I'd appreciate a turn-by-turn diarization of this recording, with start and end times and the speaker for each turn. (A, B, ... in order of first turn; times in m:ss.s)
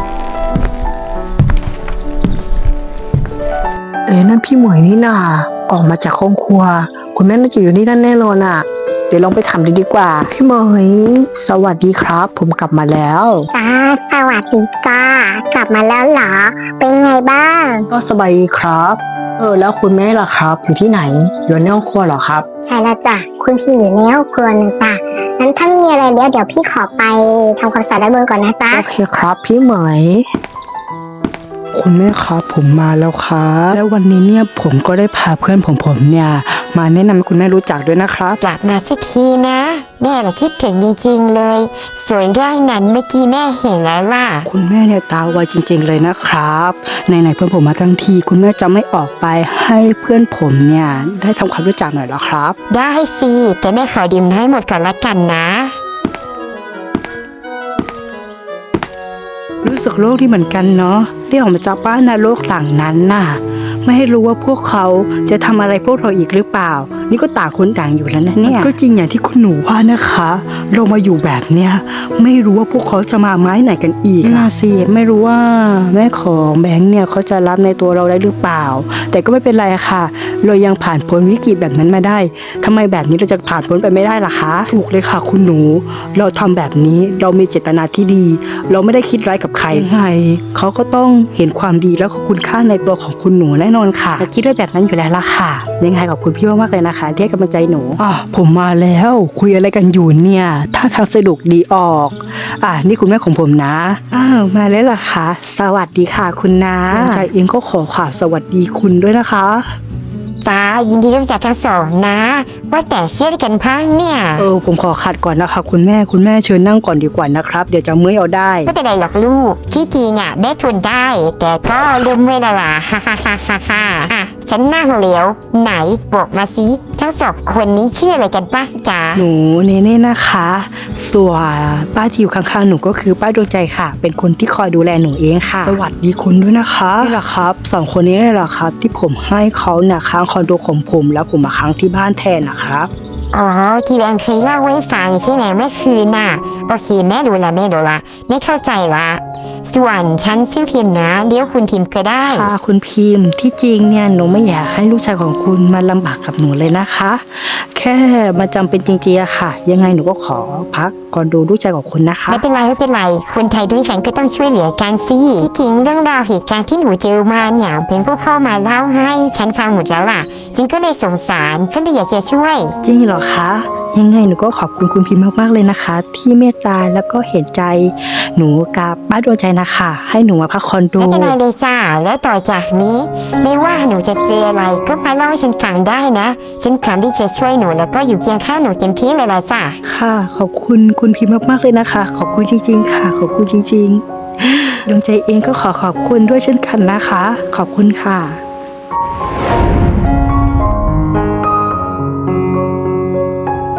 0:04.1-0:13.5 A
0:13.5-0:17.9 B
0:17.9-0:22.5 A
0:22.6-0:28.8 B
0:28.7-0:30.2 A
0:31.7-0:38.4 C
0:38.4-0:44.5 D
0:44.4-0:52.6 C
0:52.7-0:55.8 D
0:59.6-1:49.7 C
1:46.9-1:47.3 D
1:50.4-1:54.5 D
1:54.4-1:58.7 C
1:58.6-2:09.2 D
2:09.2-2:22.9 C
2:23.3-2:32.5 D
2:32.2-2:42.4 C
2:42.3-2:52.7 D
2:52.8-3:01.4 C
3:01.0-3:09.8 D
3:09.8-3:18.4 C